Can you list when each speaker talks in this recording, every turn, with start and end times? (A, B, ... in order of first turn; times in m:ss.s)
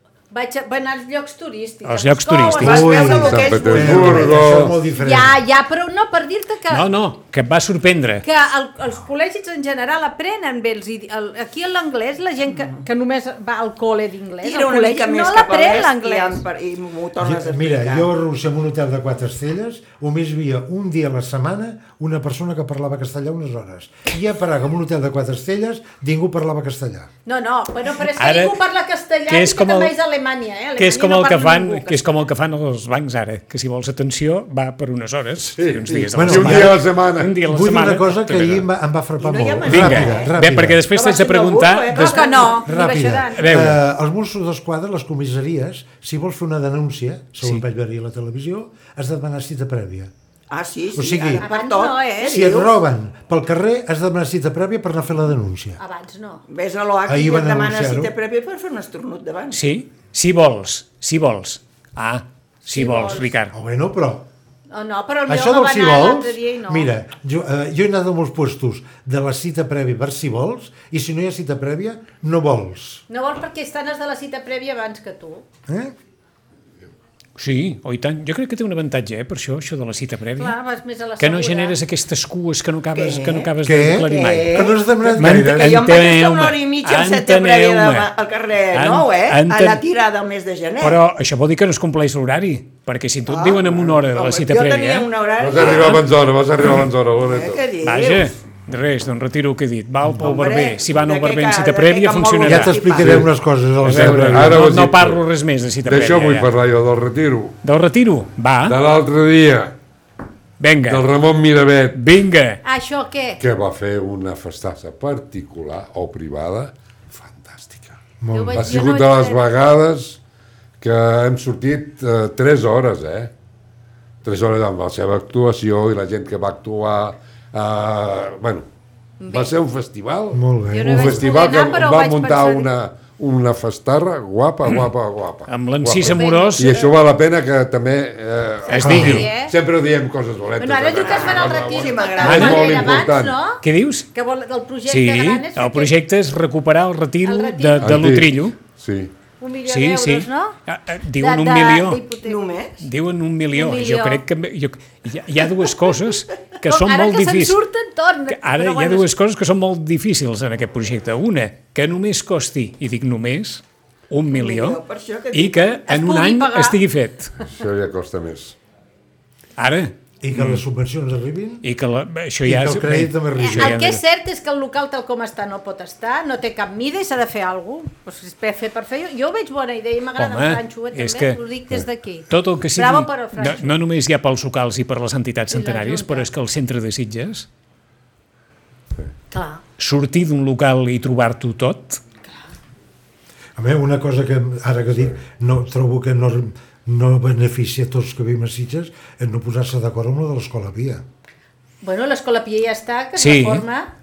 0:00.3-0:03.9 A
0:01.8-0:02.9 B
0:02.5-0:04.6 C
0:02.6-0:05.4 D
0:03.1-0:04.8 E
0:04.8-0:06.9 A
0:06.7-0:08.3 B
0:08.2-0:16.4 A
0:14.4-0:18.1 C
0:17.2-0:27.1 D
0:27.2-0:32.0 A
0:28.1-0:28.6 B
0:29.3-0:29.9 B
0:30.8-0:38.6 B
0:35.6-0:37.3 E
0:36.2-0:36.8 D
0:37.4-0:40.8 D
0:39.2-0:40.3 C
0:39.7-0:42.5 B
0:40.9-0:42.7 C
0:41.9-0:43.5 A
0:42.6-0:50.1 D
0:43.3-0:43.8 B
0:50.5-0:52.8 C
0:50.9-0:51.5 D
0:51.4-0:52.4 A
0:52.2-0:55.8 D
0:55.8-0:56.4 A
0:56.5-0:59.6 C
0:57.1-0:58.1 D
0:59.5-1:03.5 B
1:02.7-1:03.3 A
1:03.5-1:04.3 D
1:04.7-1:06.9 A
1:05.3-1:13.0 D
1:13.1-1:15.4 A
1:15.7-1:15.9 D
1:17.4-1:20.6 B
1:20.4-1:21.8 A
1:21.2-1:28.1 B
1:22.9-1:23.5 C
1:23.6-1:25.9 D
1:24.0-1:31.0 C
1:28.7-1:29.8 B
1:30.8-1:35.1 B
1:33.3-1:36.1 C
1:35.4-1:37.6 E
1:37.2-1:38.3 C
1:37.8-1:42.8 B
1:40.2-1:43.2 C
1:42.4-1:44.7 D
1:43.0-1:43.3 E
1:43.8-1:46.5 B
1:43.9-1:45.2 E
1:45.8-1:47.6 E
1:47.6-1:48.8 B
1:48.6-1:49.8 E
1:50.6-1:51.0 B
1:50.9-1:52.0 E
1:52.0-1:52.6 B
1:52.6-1:53.4 A
1:53.4-1:58.0 E
1:58.2-1:58.8 D
1:58.3-1:59.4 A
1:58.5-2:00.2 E
2:00.8-2:03.3 E
2:04.2-2:08.7 E
2:09.2-2:09.5 A
2:09.3-2:23.4 E
2:10.3-2:11.2 D
2:10.7-2:12.7 A
2:15.5-2:16.8 B
2:16.0-2:16.9 A
2:18.6-2:19.6 A
2:18.8-2:19.3 B
2:18.8-2:19.3 D
2:20.6-2:26.0 A
2:21.0-2:23.0 C
2:22.2-2:22.7 B
2:23.6-2:24.1 B
2:24.9-2:28.6 B
2:27.2-2:28.0 A
2:27.8-2:29.1 E
2:29.4-2:30.6 A
2:29.7-2:32.0 B
2:31.2-2:32.4 A
2:32.2-2:32.8 C
2:32.8-2:37.6 B
2:33.5-2:34.2 A
2:36.6-2:39.1 A
2:38.3-2:44.8 B
2:44.3-2:45.8 C
2:45.3-2:47.4 B
2:45.9-2:46.8 A
2:47.4-2:48.6 E
2:49.6-2:50.6 B
2:50.2-2:51.7 D
2:51.6-2:54.0 B
2:52.4-2:53.8 D
2:53.4-3:03.8 A
3:00.2-3:07.5 B
3:05.5-3:06.3 A
3:09.3-3:09.6 A
3:09.8-3:12.0 B
3:13.6-3:21.0 D
3:21.8-3:23.9 A
3:23.2-3:23.6 B